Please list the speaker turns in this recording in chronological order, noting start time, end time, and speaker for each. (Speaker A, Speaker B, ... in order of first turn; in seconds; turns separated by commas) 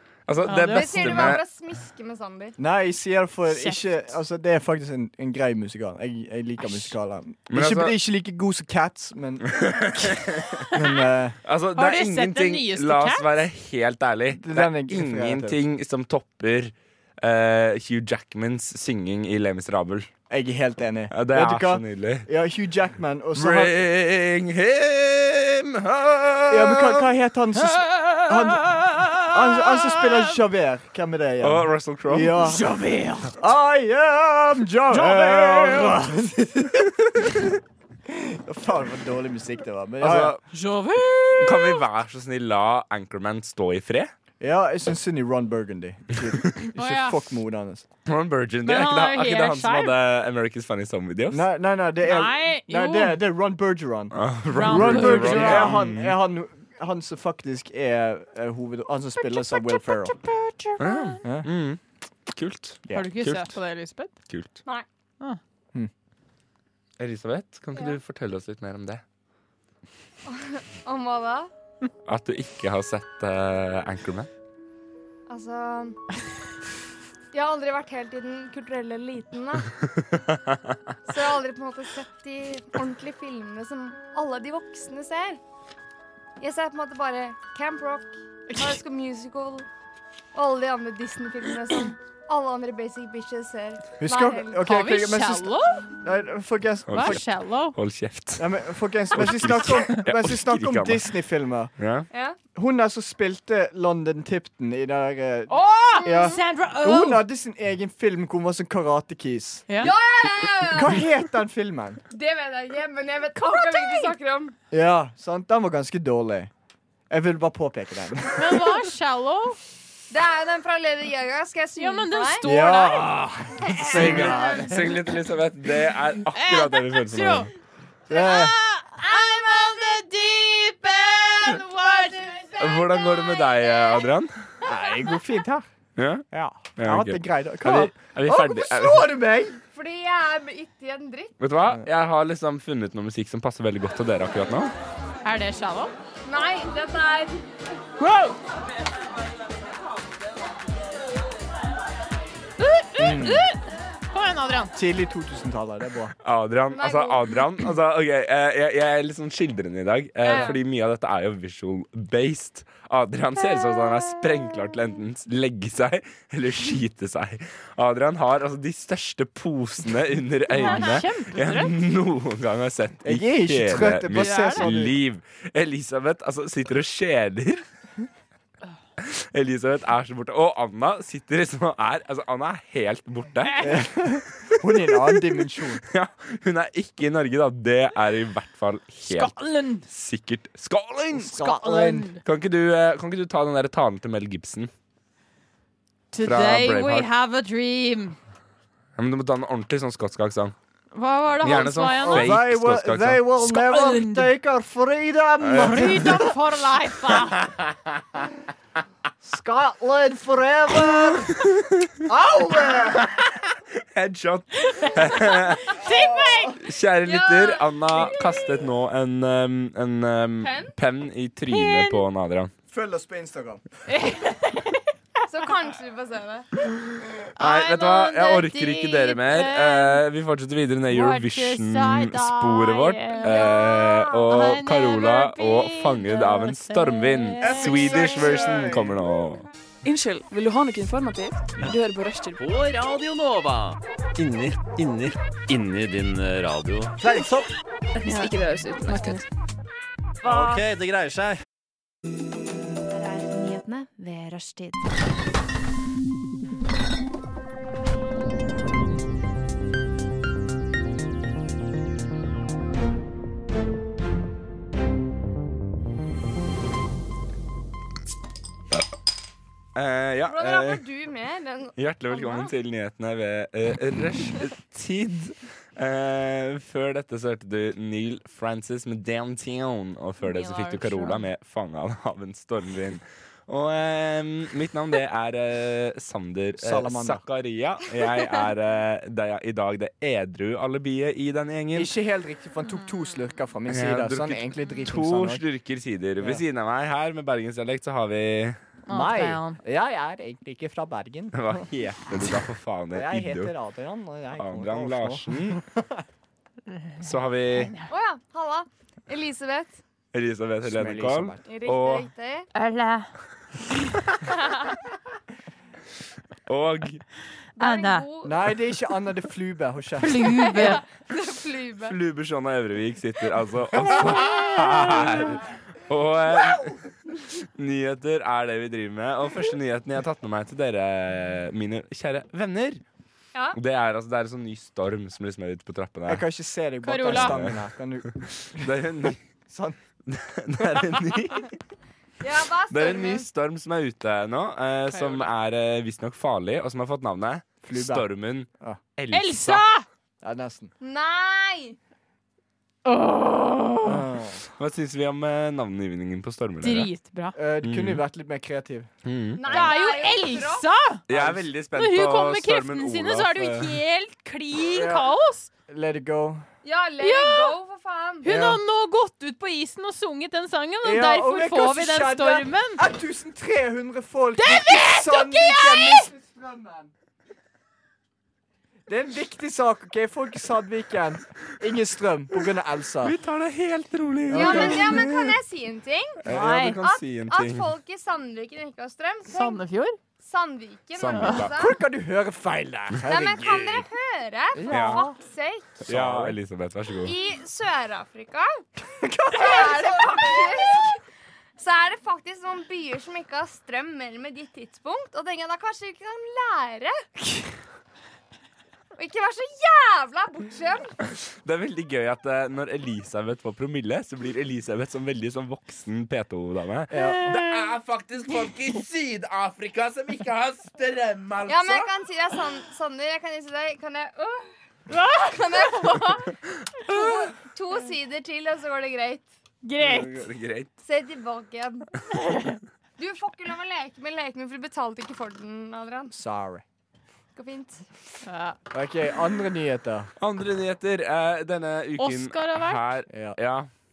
Speaker A: 0.3-1.4, Speaker B: 0.5-1.4, Speaker C: 0.7-2.5, Speaker D: 2.6-10.2, Speaker B: 3.5-3.8, Speaker A: 7.5-7.9, Speaker A: 9.5-10.5, Speaker D: 10.7-11.4, Speaker A: 11.4-20.1, Speaker B: 11.8-13.3, Speaker D: 14.3-15.6, Speaker D: 20.3-23.7, Speaker A: 21.1-22.3, Speaker A: 23.4-27.1, Speaker D: 26.5-32.7, Speaker B: 27.6-30.1, Speaker A: 31.4-32.5, Speaker B: 32.4-33.3, Speaker D: 33.4-37.4, Speaker B: 34.9-36.0, Speaker D: 38.1-40.4, Speaker A: 40.0-40.4, Speaker B: 40.5-41.8, Speaker A: 41.4-44.1, Speaker D: 44.4-47.9, Speaker B: 46.7-47.2, Speaker A: 48.0-51.4, Speaker B: 48.6-50.0, Speaker D: 51.3-60.2, Speaker B: 52.0-53.2, Speaker A: 54.1-56.1, Speaker B: 54.5-55.9, Speaker B: 59.2-61.2, Speaker A: 60.8-61.8, Speaker A: 62.3-63.5, Speaker B: 62.9-64.1, Speaker A: 64.3-64.6, Speaker A: 67.0-69.0, Speaker C: 70.2-71.5, Speaker A: 72.0-74.3, Speaker C: 75.3-76.0, Speaker C: 77.3-79.7, Speaker C: 81.1-85.4, Speaker C: 86.4-89.7, Speaker B: 88.5-88.8, Speaker C: 90.3-94.7, Speaker D: 94.0-97.2, Speaker B: 94.6-95.9, Speaker A: 96.9-98.5, Speaker B: 96.9-97.8, Speaker D: 98.4-101.7, Speaker A: 99.1-101.1, Speaker A: 101.8-102.1, Speaker C: 102.1-102.4, Speaker D: 102.5-109.9, Speaker B: 105.5-107.2, Speaker C: 106.0-106.4, Speaker C: 109.8-111.0, Speaker D: 110.7-112.0, Speaker C: 112.1-114.5, Speaker B: 113.3-114.1, Speaker D: 114.7-116.5, Speaker D: 117.1-118.9, Speaker B: 118.3-119.6, Speaker C: 120.1-122.5, Speaker B: 121.8-123.2, Speaker D: 122.4-124.8, Speaker C: 123.6-124.6, Speaker A: 123.9-127.5, Speaker B: 124.0-124.5, Speaker B: 126.3-127.5, Speaker D: 128.1-128.6, Speaker B: 128.1-133.1, Speaker C: 131.8-134.1, Speaker A: 132.6-134.3, Speaker D: 134.6-135.7, Speaker A: 135.9-136.2, Speaker D: 136.3-139.6, Speaker A: 136.8-139.2, Speaker C: 139.7-141.3, Speaker A: 141.4-144.7, Speaker B: 145.2-145.9, Speaker C: 146.2-147.4, Speaker B: 148.0-148.3, Speaker B: 152.6-153.6, Speaker D: 153.0-153.5, Speaker B: 154.1-154.7, Speaker D: 154.7-156.1, Speaker A: 156.2-177.6, Speaker C: 156.7-157.4, Speaker C: 160.2-160.5, Speaker B: 160.2-160.6, Speaker B: 170.5-171.7, Speaker D: 173.0-175.0, Speaker B: 174.1-174.6, Speaker A: 179.0-183.7, Speaker B: 183.4-183.9, Speaker D: 183.6-185.8, Speaker A: 185.9-189.3, Speaker B: 189.0-189.8, Speaker A: 189.9-191.4, Speaker D: 191.1-192.1, Speaker B: 191.3-192.2, Speaker A: 192.2-194.7, Speaker B: 196.1-198.2, Speaker A: 196.2-197.1, Speaker A: 199.0-200.5, Speaker B: 200.9-202.4, Speaker A: 201.4-203.2, Speaker D: 201.4-206.4, Speaker B: 203.4-204.3, Speaker A: 205.4-206.1, Speaker B: 205.6-207.5, Speaker D: 209.2-211.5, Speaker D: 212.0-213.2, Speaker A: 213.0-215.8, Speaker B: 214.7-216.6, Speaker D: 215.8-216.6, Speaker A: 216.6-222.5, Speaker C: 217.0-218.3, Speaker C: 220.4-220.7, Speaker B: 221.5-222.0, Speaker D: 222.7-223.6, Speaker B: 223.8-224.9, Speaker C: 225.3-226.5, Speaker B: 227.4-230.0, Speaker A: 227.4-239.5, Speaker B: 230.9-238.5, Speaker C: 233.2-233.7, Speaker D: 237.4-238.9, Speaker E: 239.8-242.4, Speaker F: 242.4-247.5, Speaker E: 248.0-249.2, Speaker F: 250.2-251.4, Speaker G: 252.9-254.9, Speaker A: 269.7-270.8, Speaker C: 270.3-272.5, Speaker A: 271.8-291.9, Speaker B: 280.2-281.2, Speaker D: 286.6-287.2, Speaker D: 291.7-295.4, Speaker A: 293.7-298.6, Speaker D: 298.9-301.6, Speaker B: 298.9-299.6, Speaker A: 301.3-303.5, Speaker D: 302.9-306.0, Speaker A: 304.4-305.6, Speaker B: 306.7-307.9, Speaker A: 307.0-307.7, Speaker C: 307.9-309.8, Speaker A: 310.1-312.1, Speaker D: 310.6-311.4, Speaker C: 311.5-312.5, Speaker B: 312.5-313.1, Speaker A: 316.5-317.0, Speaker C: 317.6-318.4, Speaker B: 317.6-318.1, Speaker D: 318.2-320.4, Speaker B: 320.0-320.8, Speaker C: 320.4-321.9, Speaker A: 321.9-326.8, Speaker B: 323.9-325.3, Speaker A: 327.6-332.8, Speaker A: 333.5-336.2, Speaker D: 336.1-338.7, Speaker B: 336.8-337.3, Speaker A: 337.1-337.5, Speaker A: 338.5-339.2, Speaker D: 339.5-339.8, Speaker A: 340.1-341.5, Speaker C: 342.2-343.2, Speaker A: 342.7-349.6, Speaker B: 344.9-345.3, Speaker D: 347.6-348.0, Speaker B: 349.1-349.9, Speaker D: 350.2-350.7, Speaker C: 350.8-351.8, Speaker B: 352.8-354.1, Speaker D: 353.8-354.4, Speaker A: 354.6-356.9, Speaker B: 356.6-357.4, Speaker D: 357.3-358.9, Speaker A: 357.6-358.0, Speaker A: 359.0-359.7, Speaker C: 359.4-360.6, Speaker B: 359.4-361.0, Speaker A: 361.1-363.7, Speaker D: 361.1-361.5, Speaker B: 361.7-365.5, Speaker D: 364.6-365.1, Speaker D: 365.7-366.4, Speaker C: 366.6-368.2, Speaker B: 367.0-367.6, Speaker B: 368.2-372.9, Speaker D: 368.2-368.6, Speaker D: 370.8-376.9, Speaker B: 374.4-376.1, Speaker D: 378.9-383.1, Speaker A: 383.0-385.4, Speaker D: 384.3-385.1, Speaker C: 384.3-386.2, Speaker A: 386.2-387.7, Speaker B: 386.3-386.8, Speaker C: 386.8-389.6, Speaker B: 389.3-390.0, Speaker C: 390.2-391.7, Speaker A: 390.9-391.6, Speaker B: 391.1-391.4, Speaker D: 391.5-393.9, Speaker C: 393.1-395.7, Speaker D: 394.5-395.2, Speaker A: 394.7-395.0, Speaker D: 395.8-396.4, Speaker A: 395.8-397.1, Speaker C: 397.0-398.5, Speaker D: 398.8-400.9, Speaker C: 399.3-400.9, Speaker C: 401.6-407.0, Speaker C: 409.0-410.9, Speaker A: 411.3-421.9, Speaker D: 416.9-417.3, Speaker B: 416.9-417.7, Speaker C: 421.5-424.5, Speaker B: 424.9-426.1, Speaker C: 425.3-429.3, Speaker B: 429.6-430.2, Speaker A: 429.8-430.7, Speaker C: 430.8-431.9, Speaker C: 433.0-436.1, Speaker D: 436.1-436.6, Speaker C: 437.3-437.9, Speaker B: 438.2-438.6, Speaker D: 438.7-440.1, Speaker A: 440.2-443.7, Speaker B: 442.0-443.0, Speaker D: 443.1-443.4